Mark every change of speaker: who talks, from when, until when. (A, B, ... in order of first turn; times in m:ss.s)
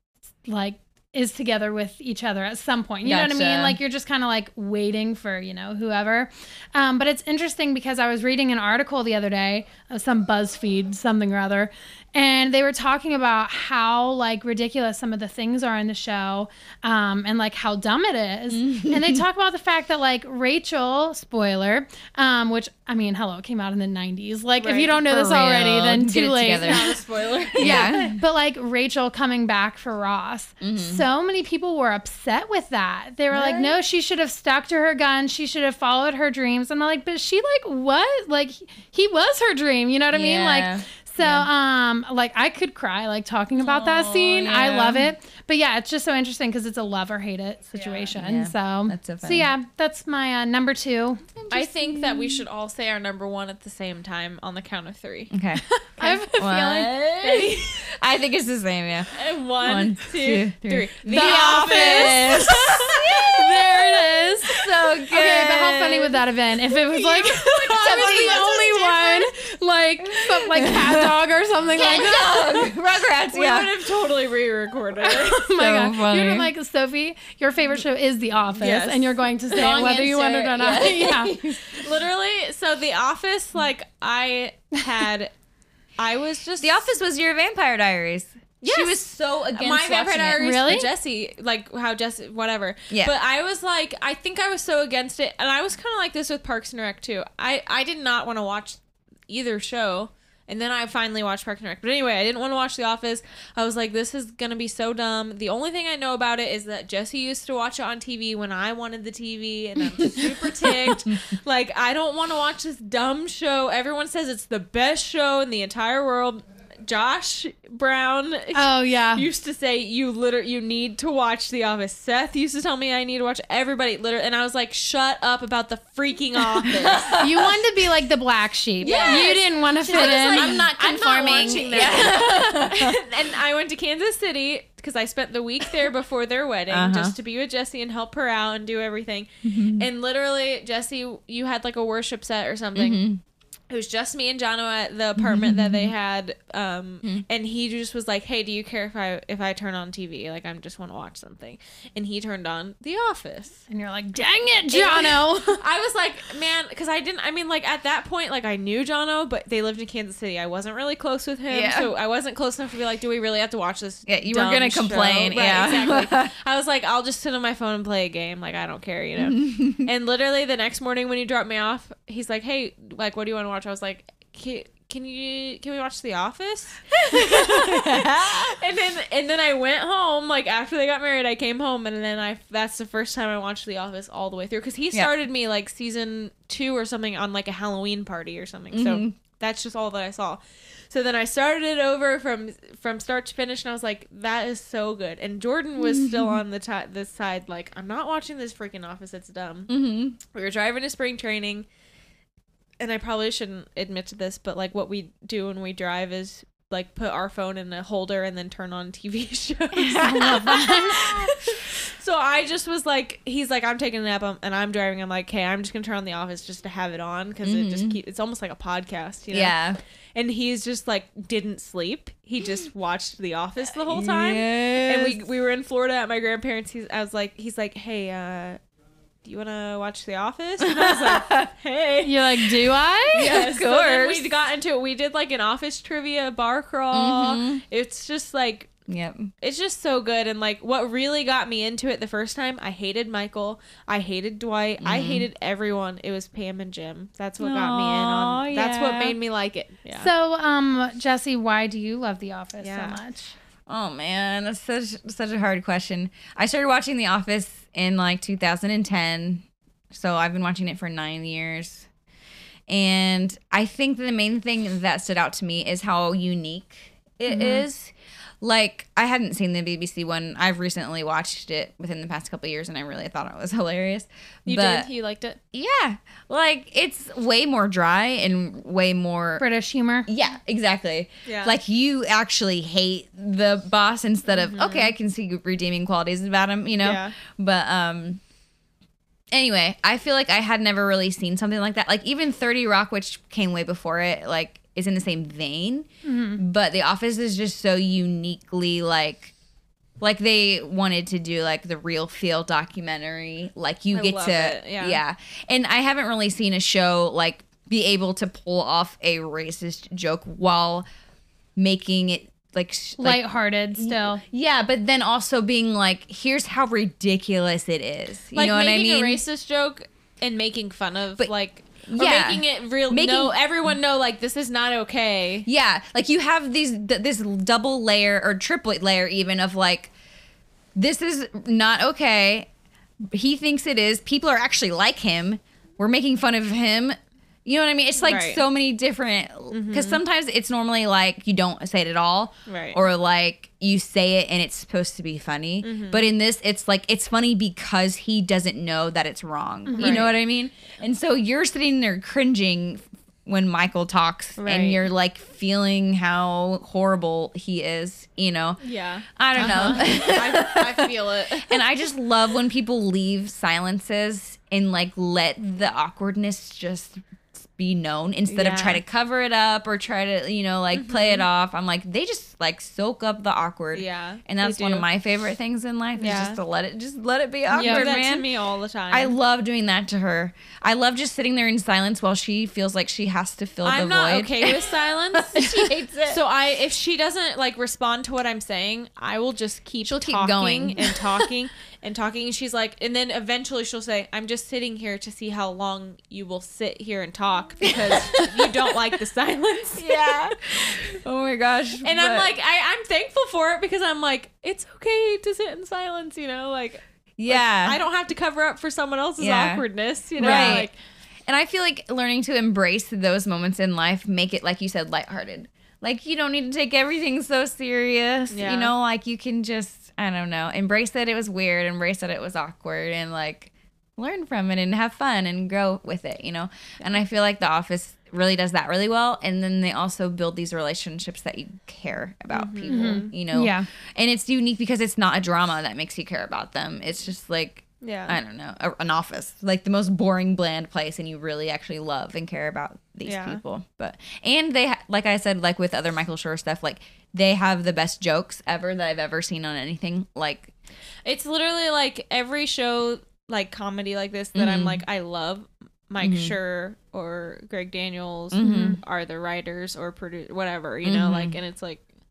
0:00.4-0:27.0 A
0:03.0-0:03.8 B
0:18.5-0:19.2 B
0:24.6-0:24.9 C
0:25.0-0:28.2 B
0:26.6-0:27.9 C
0:27.6-0:51.2 A
0:30.6-0:31.0 B
0:33.3-0:33.8 B
0:40.1-0:41.5 B
0:43.6-0:45.1 B
0:48.1-0:49.5 B
0:51.4-0:52.4 B
0:51.5-0:55.3 C
0:55.3-1:09.3 B
0:55.8-0:57.0 A
0:57.2-0:57.7 C
0:59.1-1:04.1 C
1:01.1-1:02.4 A
1:03.2-1:12.5 A
1:07.4-1:08.5 C
1:10.0-1:11.1 B
1:11.7-1:13.8 B
1:11.8-1:15.5 C
1:15.0-1:21.6 A
1:15.5-1:16.5 B
1:18.6-1:19.8 C
1:19.5-1:21.9 B
1:21.7-1:25.3 C
1:26.0-1:26.9 C
1:26.6-1:30.6 B
1:28.6-2:07.2 C
1:30.4-1:30.9 A
1:32.9-1:33.1 B
1:49.9-1:51.2 B
1:58.5-1:59.3 A
2:06.6-2:07.6 B
2:07.2-2:10.6 A
2:08.8-2:13.0 B
2:08.8-2:23.0 C
2:16.7-2:17.2 B
2:19.4-2:19.9 B
2:22.7-2:23.2 B
2:23.7-2:33.6 C
2:25.2-2:25.9 B
2:33.7-2:35.6 A
2:34.7-3:19.7 C
2:41.5-2:41.9 B
2:44.1-2:46.3 B
2:49.2-2:49.9 B
2:57.1-2:58.6 B
3:08.7-3:09.1 B
3:15.8-3:16.4 B
3:19.7-3:20.2 B
3:20.3-3:21.6 C
3:22.8-3:39.6 C
3:29.7-3:31.3 B
3:30.0-3:31.2 A
3:37.4-3:38.0 B
3:39.3-3:39.8 B
3:40.1-3:48.6 C
3:43.9-3:45.2 B
3:49.2-3:52.5 C
3:50.6-3:51.5 B
3:52.0-3:53.4 A
3:53.1-3:58.7 C
3:53.1-3:54.3 B
3:56.9-3:57.6 B
3:58.9-3:59.3 B
3:59.4-4:10.1 C
4:04.8-4:05.3 B
4:07.4-4:09.2 B
4:09.9-4:13.3 A
4:12.6-4:13.0 C
4:13.7-4:21.9 B
4:22.7-4:34.9 B
4:27.3-4:27.6 C
4:34.4-4:35.4 C
4:35.5-4:39.4 B
4:39.4-4:40.1 A
4:40.1-4:48.2 B
4:41.2-4:41.6 C
4:44.3-4:44.9 C
4:46.8-4:47.2 C
4:49.3-4:55.9 B
4:56.0-4:56.4 A
4:56.4-4:59.3 B
5:00.0-5:10.8 B
5:03.9-5:05.0 C
5:11.6-5:13.2 B
5:13.0-5:14.2 A
5:13.7-5:19.2 B
5:18.3-5:25.4 C
5:21.9-5:23.4 B
5:25.4-5:29.9 B
5:30.7-5:32.5 B
5:33.1-5:58.6 B
5:38.0-5:38.4 C
5:39.5-5:40.0 C
5:42.5-5:42.8 C
5:45.6-5:46.0 C
5:49.6-5:50.0 A
5:49.8-5:50.2 C
5:54.4-5:54.9 C
5:58.6-6:01.6 C
5:59.2-6:00.9 B
6:01.5-6:18.3 B
6:08.3-6:08.8 C
6:10.7-6:11.2 C
6:13.7-6:14.8 C
6:16.0-6:16.4 C
6:17.5-6:17.9 A
6:17.5-6:19.1 C
6:18.9-6:26.2 B
6:23.6-6:41.0 C
6:29.8-6:31.3 B
6:37.6-6:38.9 B
6:39.8-6:42.3 B
6:41.8-6:50.8 C
6:47.2-6:47.8 B
6:49.2-6:49.6 B
6:50.2-6:50.7 B
6:50.2-6:50.6 A
6:51.3-7:30.5 B
6:58.3-6:58.7 C
7:12.3-7:13.1 C
7:12.7-7:13.7 A
7:17.8-7:18.2 C
7:23.0-7:23.4 C
7:31.0-7:41.8 C
7:34.3-7:34.8 B
7:36.0-7:36.3 B
7:38.3-7:38.8 B
7:38.4-7:38.8 A
7:40.8-7:41.4 B